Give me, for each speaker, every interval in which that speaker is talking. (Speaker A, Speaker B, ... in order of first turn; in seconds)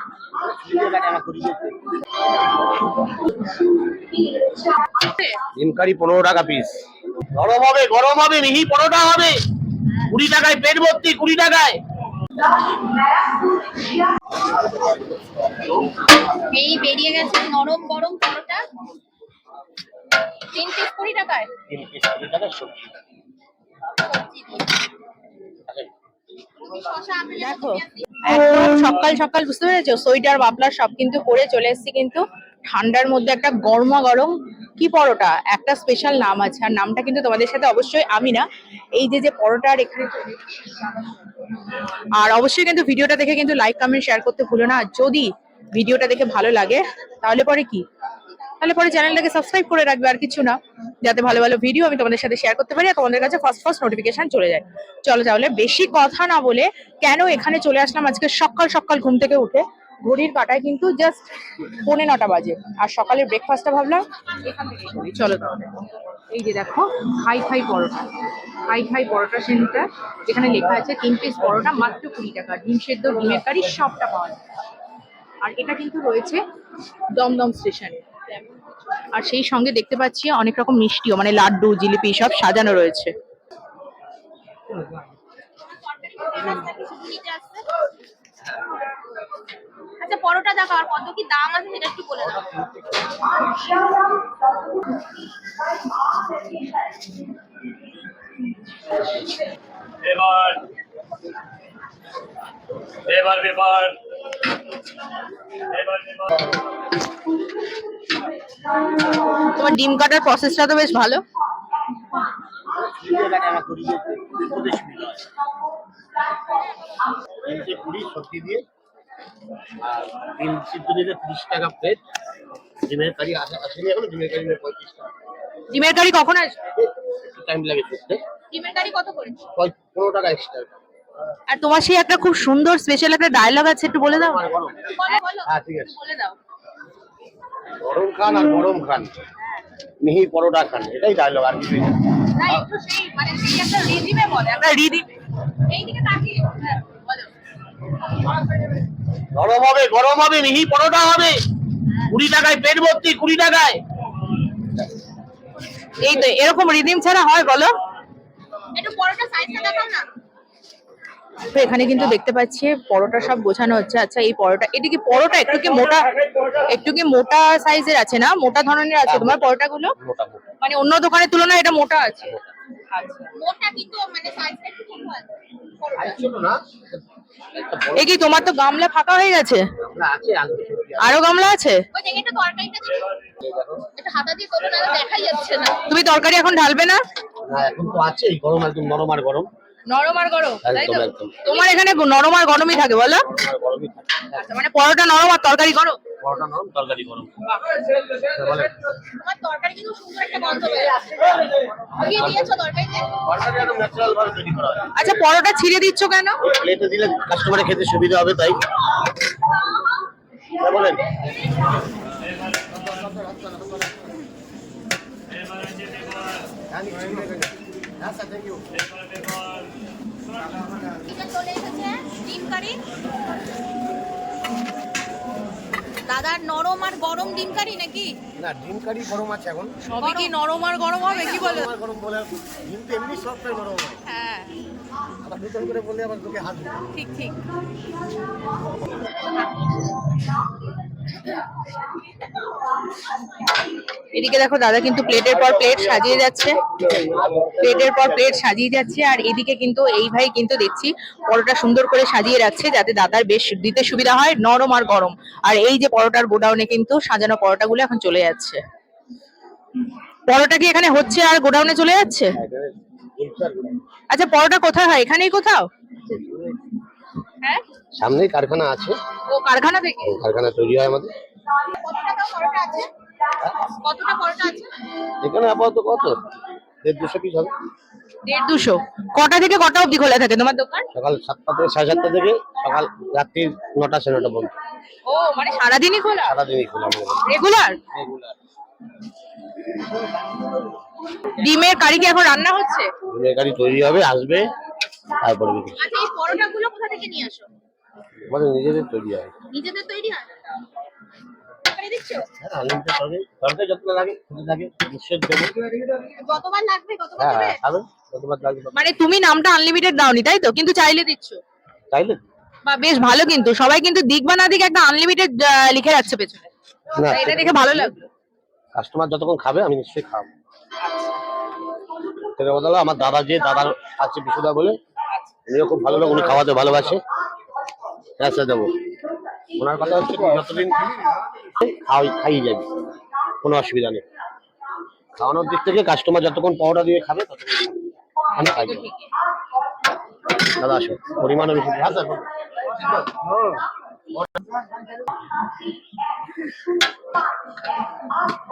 Speaker A: 0.4-1.8, 5.5-6.8, 7.3-9.4, 10.1-11.8, 21.7-22.9, 92.2-93.0, 112.7-115.2, 117.4-118.6, 119.8-122.0, 122.8-125.1, 126.8-128.2, 129.6-130.7, 134.1-134.9, 135.4-136.0, 137.8-139.1, 140.0-142.6, 149.3-151.4, 152.1-153.8, 169.1-169.5, 170.0-170.5, 176.0-177.0, 177.5-178.3, 179.8-181.2, 183.4-183.9, 187.4-189.5, 190.6-191.4, 193.3-194.4, 196.2-197.3, 198.2-198.7, 202.1-202.5, 203.2-204.9, 206.4-208.6, 210.6-211.2, 212.7-214.0, 216.7-219.2, 228.4-229.8, 231.1-234.0, 235.2-236.9, 245.7-246.1, 246.8-248.1, 262.4-263.8, 266.1-266.5, 268.0-269.0, 270.0-271.1, 273.4-273.7, 275.2-276.2, 276.8-277.5, 280.9-284.5, 286.2-287.3, 287.9-288.4, 293.1-294.5, 295.2-295.9, 298.3-299.4, 302.4-305.8, 307.2-308.9, 311.9-312.2, 316.9-317.9, 318.8-320.3, 322.4-324.8, 325.5-327.0, 328.2-328.8, 329.6-332.7, 333.4-334.0, 335.2-337.8, 338.4-338.9, 340.4-342.3, 342.8-343.6
Speaker B: 5.0-5.4, 27.4-40.4, 42.1-47.9, 48.6-65.7, 66.3-68.1, 68.7-74.4, 75.4-76.4, 77.2-78.0, 79.1-83.1, 109.5-111.2, 125.7-126.6, 131.5-134.4, 142.4-145.1, 156.0-157.7, 161.5-166.1, 166.7-169.9, 170.6-172.4, 172.9-173.3, 177.9-179.7, 181.0-181.8, 185.9-187.0, 189.9-193.3, 194.3-196.0, 205.0-206.4, 229.9-231.7, 234.1-234.6, 236.9-237.4, 244.1-246.6, 247.6-258.6, 260.3-262.4, 264.1-265.7, 269.3-270.2, 278.2-280.9, 285.1-286.4, 287.3-287.8, 291.4-292.9, 308.7-311.4, 312.7-318.0, 320.8-321.2, 338.4-339.0
Speaker C: 16.4-18.6, 20.5-21.5, 24.1-24.7, 26.6-28.1, 85.8-87.7, 90.0-92.5, 128.5-129.5, 134.9-136.3, 142.4-143.2, 145.7-147.3, 158.8-160.1, 173.3-176.3, 181.9-183.0, 184.0-185.9, 199.1-203.1, 221.1-222.8, 226.1-228.2, 230.0-231.4, 271.7-272.9, 273.7-274.7, 295.8-297.5, 299.5-300.4, 301.7-302.3, 306.0-307.6